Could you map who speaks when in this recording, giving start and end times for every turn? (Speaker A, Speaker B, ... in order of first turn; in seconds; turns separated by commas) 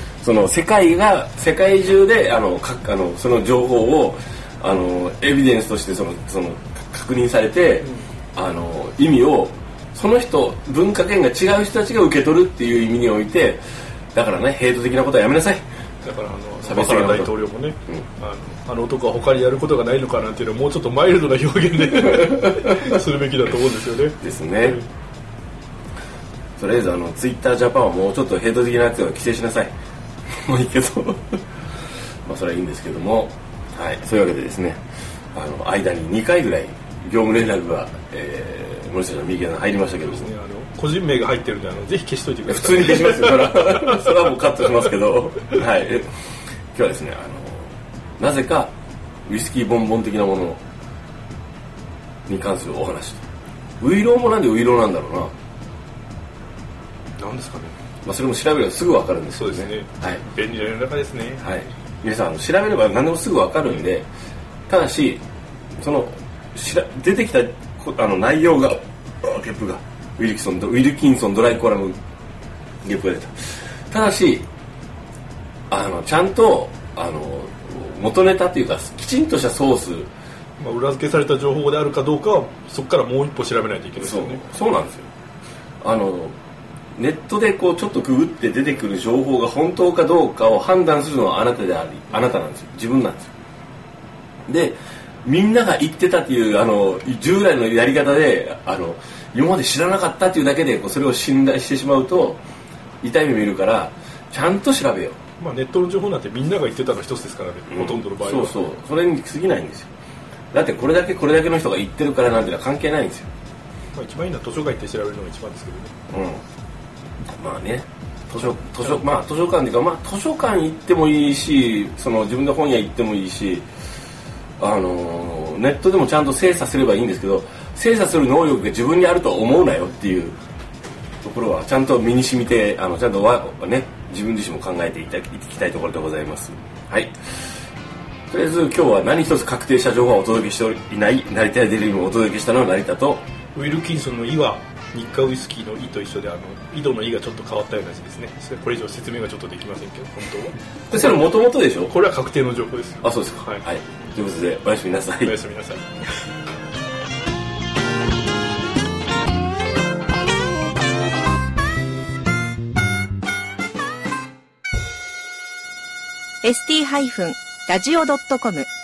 Speaker A: 0.2-13.6, Speaker B: 7.8-8.1, Speaker A: 14.1-15.6, Speaker B: 16.0-24.9, Speaker A: 16.6-18.0, Speaker A: 24.2-24.8, Speaker A: 26.6-29.7, Speaker A: 30.4-31.4, Speaker A: 32.2-34.8, Speaker A: 35.3-40.3, Speaker B: 40.0-44.1, Speaker A: 42.5-46.1, Speaker A: 46.7-48.7, Speaker A: 49.3-50.6, Speaker A: 52.3-53.2, Speaker A: 53.8-55.3, Speaker B: 57.2-57.7, Speaker A: 58.0-60.2, Speaker B: 59.3-61.5, Speaker A: 61.4-64.1, Speaker A: 64.7-65.2, Speaker A: 65.8-72.0, Speaker A: 72.8-74.5, Speaker A: 75.7-80.1, Speaker B: 80.6-84.4, Speaker A: 84.0-85.1, Speaker A: 85.8-86.3, Speaker A: 87.0-93.3, Speaker A: 94.5-102.4, Speaker A: 103.0-105.2, Speaker B: 105.4-108.6, Speaker A: 107.7-109.9, Speaker A: 110.5-113.3, Speaker B: 113.9-115.9, Speaker A: 116.1-116.4, Speaker A: 117.4-123.7, Speaker B: 118.8-119.1, Speaker A: 124.6-130.4, Speaker A: 131.2-137.1, Speaker A: 138.3-143.2, Speaker B: 143.5-151.3, Speaker A: 150.9-151.9, Speaker B: 151.8-153.6, Speaker A: 153.0-155.4, Speaker B: 155.2-155.9, Speaker C: 166.4-168.7